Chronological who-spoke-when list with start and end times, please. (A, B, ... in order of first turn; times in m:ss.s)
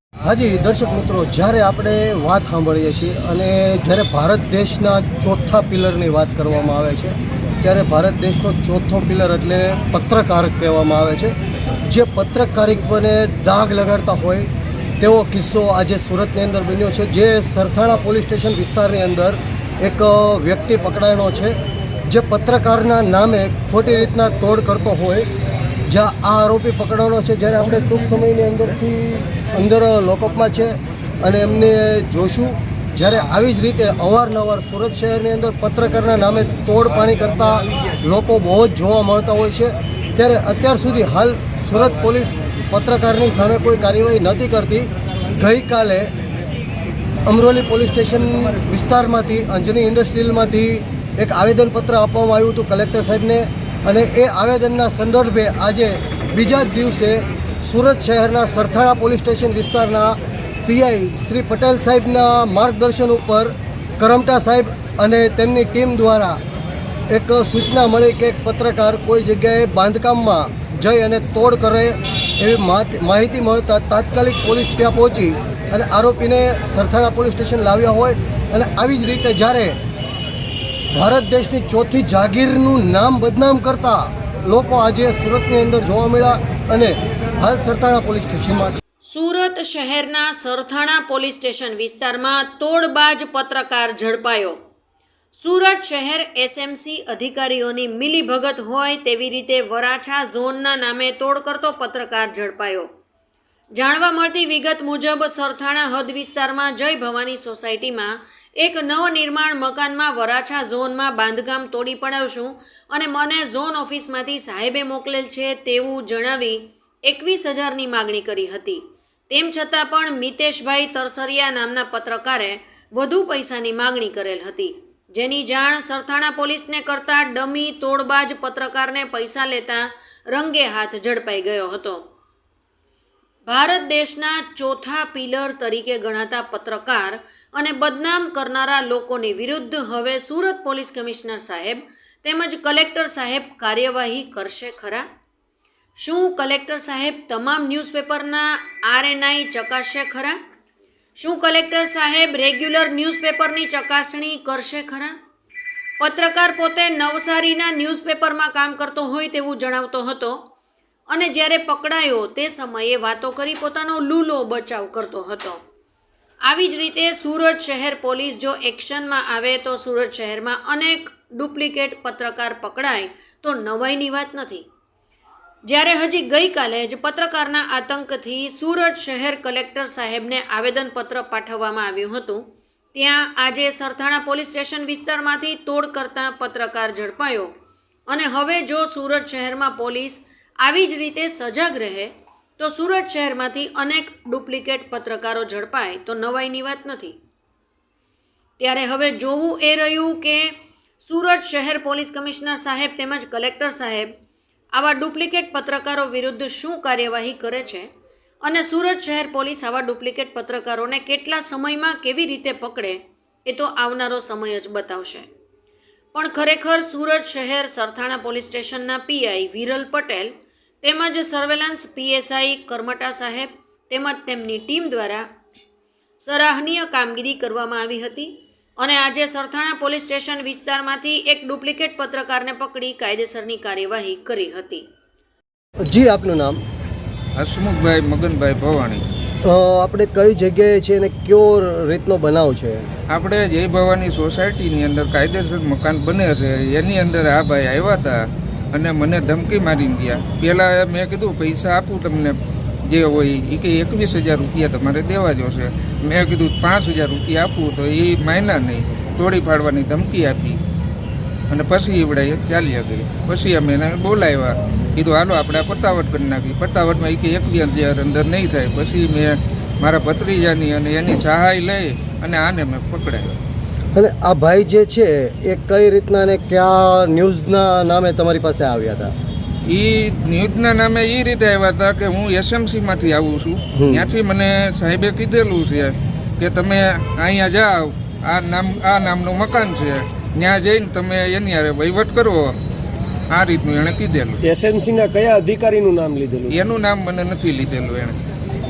0:00.2-0:11.3 A
0:11.9-0:14.5 A
0:15.0-0:25.3 A
0:25.9-0:46.1 A
0:47.2-1:06.4 A
1:07.1-1:19.8 A
1:20.9-1:28.8 A
1:29.1-1:34.6 B
1:35.3-1:42.9 B
1:43.7-2:12.0 B
2:13.4-2:25.0 B
2:26.0-2:30.4 B
2:31.2-2:35.1 B
2:36.0-2:40.4 B
2:41.1-2:45.6 B
2:46.4-2:54.6 B
2:55.6-3:07.5 B
3:08.1-3:17.2 B
3:18.6-3:24.1 B
3:24.7-3:27.9 B
3:28.4-3:35.3 B
3:36.1-3:45.2 B
3:46.2-3:54.8 B
3:55.8-3:56.6 A
3:57.4-3:59.0 C
3:59.4-4:02.9 A
4:03.1-4:08.2 C
4:08.7-4:12.3 C
4:12.9-4:20.6 C
4:21.5-4:33.4 C
4:33.9-4:39.1 A
4:39.7-4:52.5 C
4:43.7-4:44.1 A
4:53.3-4:54.4 C
4:54.4-4:56.6 D
4:56.5-4:58.1 C